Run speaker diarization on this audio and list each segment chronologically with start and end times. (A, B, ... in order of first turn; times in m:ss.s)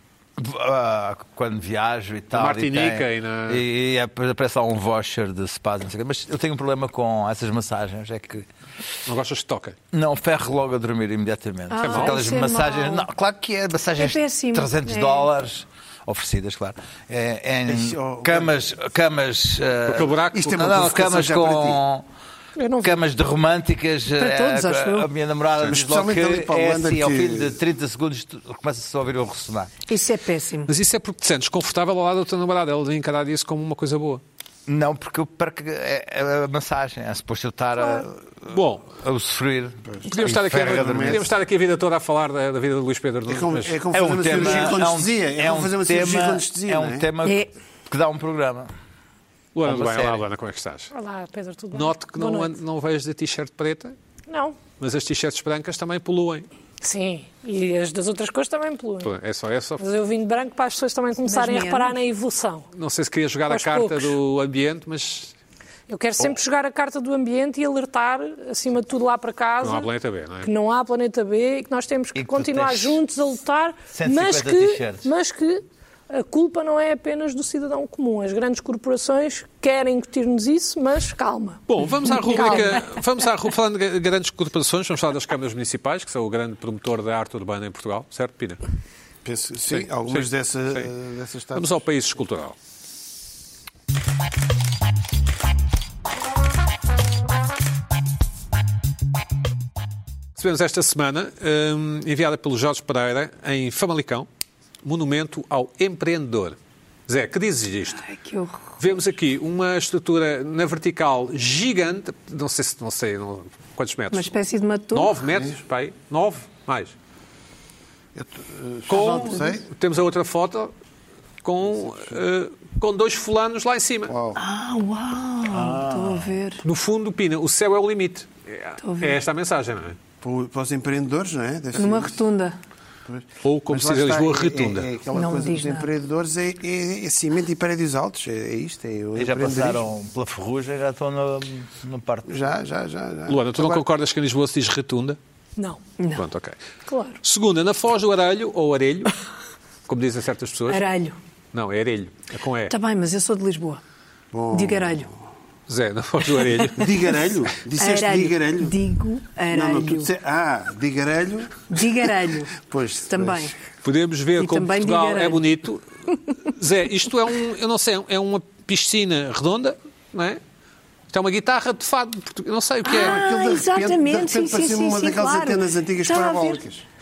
0:00.4-0:08.5 A
0:02.3-0:03.7 B
0:09.1-0:09.8 B
0:09.9-0:22.1 A
0:11.7-0:13.1 C
0:11.8-0:12.3 B
0:14.0-0:15.3 C
0:17.7-0:18.6 D
0:19.9-0:20.8 B
0:20.3-0:21.8 D
0:22.6-0:23.0 E
0:22.8-0:29.8 A
0:24.2-0:25.1 C
0:25.6-0:27.6 D
0:29.9-0:30.7 C
0:30.7-0:34.2 B
0:34.7-0:41.2 A
0:38.5-0:38.9 B
0:39.9-0:41.2 D
0:40.1-0:43.8 B
0:43.3-0:47.1 D
0:43.9-0:48.7 A
0:49.6-0:50.9 B
0:49.6-0:50.2 A
0:50.9-0:52.6 E
0:51.7-0:54.0 B
0:54.3-0:54.6 E
0:54.8-0:56.5 B
0:56.8-0:59.1 E
0:59.0-0:59.8 B
0:59.8-1:02.7 E
1:01.2-1:02.0 C
1:02.7-1:05.3 B
1:03.5-1:04.2 E
1:05.9-1:09.9 E
1:09.6-1:10.5 B
1:10.4-1:21.6 E
1:12.2-1:13.0 A
1:13.9-1:15.1 A
1:21.7-1:28.6 B
1:22.2-1:22.8 E
1:29.2-1:31.8 D
1:29.7-1:30.9 B
1:31.5-1:32.6 B
1:40.4-1:44.3 B
1:44.8-1:46.6 B
1:47.1-1:48.0 B
1:48.0-1:48.8 C
1:48.8-1:54.3 B
1:54.1-1:55.2 C
1:54.9-1:57.0 B
1:58.2-1:59.6 D
1:58.9-2:00.7 B
2:01.4-2:04.1 B
2:04.1-2:04.4 D
2:04.4-2:06.6 C
2:05.5-2:06.3 D
2:06.6-2:10.0 B
2:08.8-2:09.2 C
2:10.2-2:12.2 D
2:11.8-2:12.6 C
2:13.1-2:19.8 D
2:13.4-2:14.9 B
2:15.1-2:15.9 C
2:19.2-2:22.4 A
2:22.3-2:23.8 D
2:23.3-2:25.2 B
2:25.6-2:25.8 E
2:26.0-2:26.3 C
2:26.1-2:26.6 B
2:26.9-2:27.2 E
2:27.2-2:29.1 B
2:29.9-2:30.9 B
2:30.7-2:31.2 C
2:31.5-2:32.8 B
2:32.7-2:33.8 C
2:34.3-2:35.2 D
2:34.5-2:35.1 C
2:35.7-2:36.9 B
2:36.7-2:38.8 D
2:37.8-2:40.1 C
2:39.5-2:43.6 D
2:41.7-2:42.5 C
2:43.1-2:43.5 C
2:43.8-2:50.4 B
2:44.4-2:45.5 C
2:51.1-2:53.2 B
2:52.8-2:56.6 C
2:52.9-2:56.8 D